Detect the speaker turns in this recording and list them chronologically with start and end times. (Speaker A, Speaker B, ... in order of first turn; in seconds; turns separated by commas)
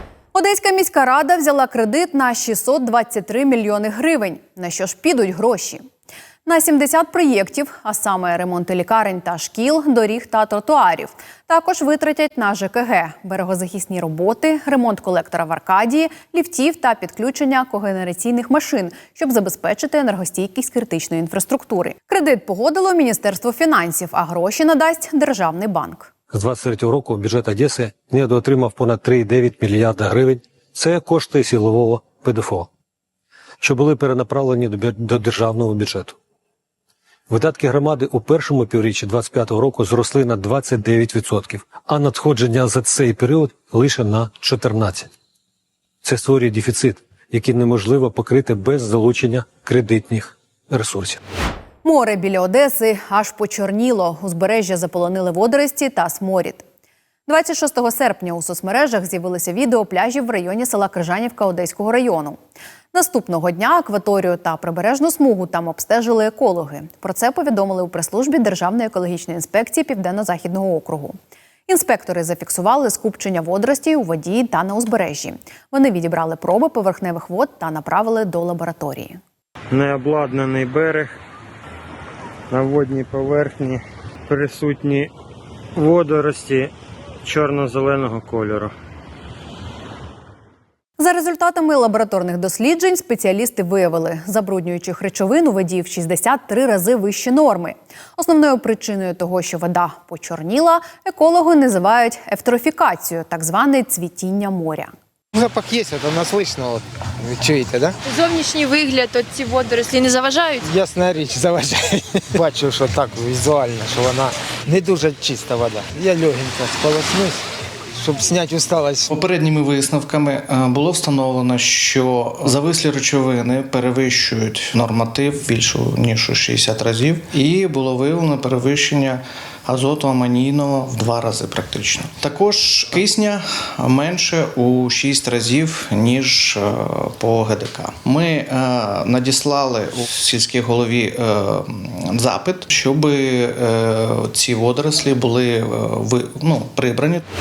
Speaker A: 0.3-5.8, Speaker A: 6.5-26.1, Speaker B: 26.3-32.7, Speaker B: 33.6-36.1, Speaker B: 37.3-45.1, Speaker B: 46.0-51.2, Speaker A: 51.8-56.6, Speaker A: 57.3-62.4, Speaker A: 62.9-71.2, Speaker A: 71.7-79.2, Speaker C: 79.7-81.1, Speaker C: 82.5-85.1, Speaker C: 85.8-86.7, Speaker C: 87.2-88.7, Speaker A: 91.0-104.9, Speaker D: 105.3-107.9, Speaker E: 108.1-110.6, Speaker D: 110.7-117.4, Speaker D: 118.0-119.1, Speaker F: 119.1-147.2